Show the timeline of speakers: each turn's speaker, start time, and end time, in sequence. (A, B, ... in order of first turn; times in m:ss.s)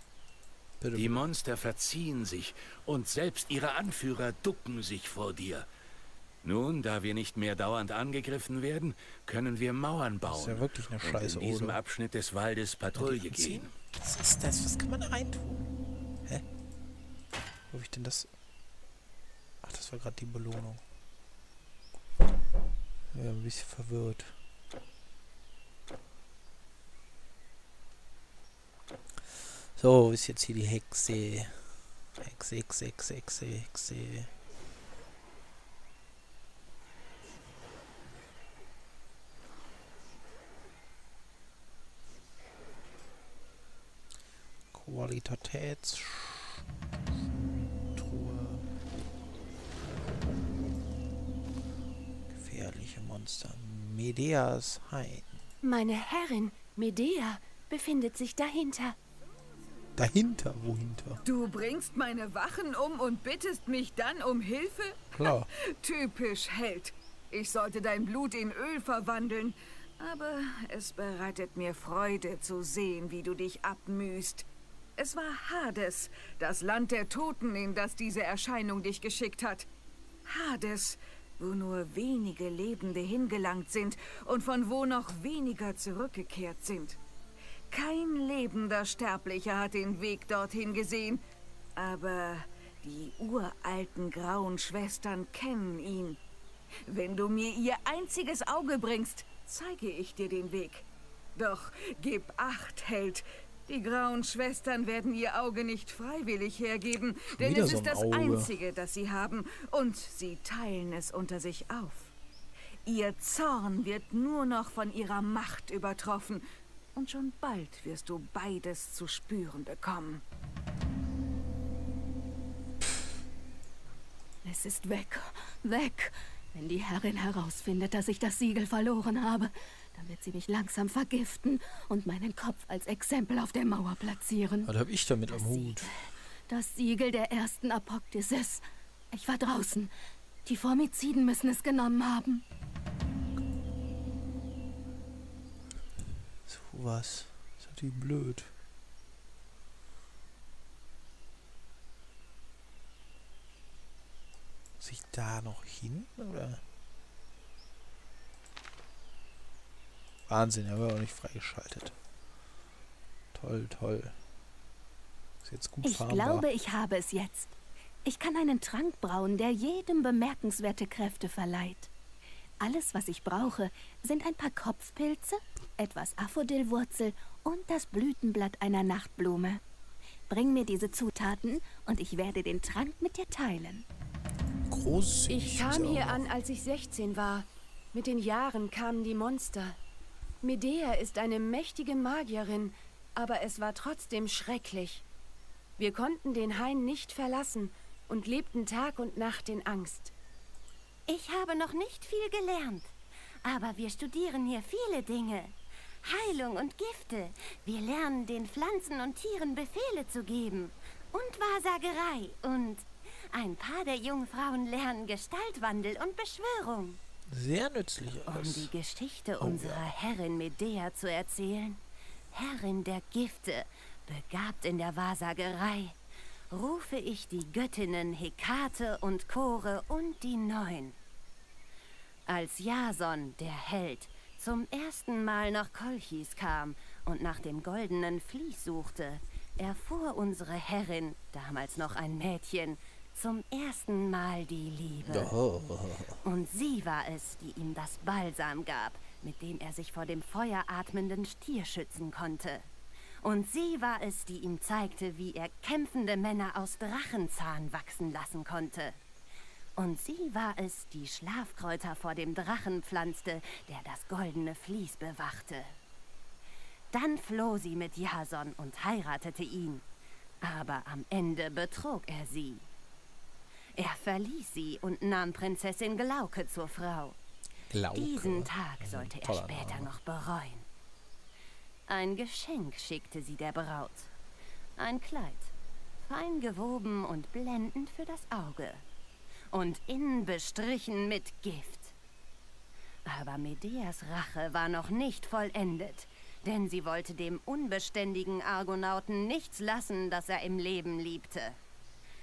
0:00.8-0:01.3 A
0:00.9-0:05.7 B
0:06.4-0:13.7 B
0:10.2-0:11.8 A
0:12.9-0:15.7 A
0:17.7-0:18.3 A
0:19.6-0:20.8 A
0:23.1-0:24.4 A
0:29.7-0:34.3 A
0:44.7-0:48.6 A
0:52.3-0:55.4 A
0:55.6-0:59.0 C
1:00.0-1:01.2 A
1:01.2-1:19.7 D
1:05.1-1:05.5 A
1:20.2-1:27.0 D
1:27.7-1:31.2 D
1:31.8-1:36.2 D
1:36.8-1:52.1 D
1:47.4-1:48.5 A
1:52.8-1:56.4 D
1:56.9-2:00.2 D
2:04.4-2:14.7 E
2:14.6-2:15.9 A
2:15.3-2:19.9 E
2:20.4-2:22.4 E
2:26.4-2:28.5 A
2:34.8-2:36.6 A
2:40.3-2:42.0 A
2:43.3-2:44.2 A
2:45.4-2:46.5 A
2:45.8-2:51.9 E
2:52.6-2:59.6 E
3:00.3-3:03.8 E
3:04.7-3:06.2 A
3:05.3-3:09.8 C
3:10.4-3:15.0 C
3:15.8-3:20.1 C
3:21.1-3:22.9 F
3:23.4-3:37.0 F
3:37.3-3:38.7 A
3:38.2-3:41.8 F
3:39.4-3:39.8 A
3:42.3-3:46.0 F
3:46.5-3:51.0 F
3:52.3-4:05.4 F
4:05.0-4:06.2 A
4:06.2-4:12.7 F
4:13.2-4:19.0 F
4:19.8-4:25.7 F
4:26.9-4:29.8 F
4:30.4-4:32.7 F
4:33.8-4:37.2 F
4:37.7-4:39.9 A
4:37.9-4:40.6 F
4:41.9-4:44.1 F
4:44.8-4:48.8 F
4:49.5-4:51.9 F
4:53.0-5:01.6 F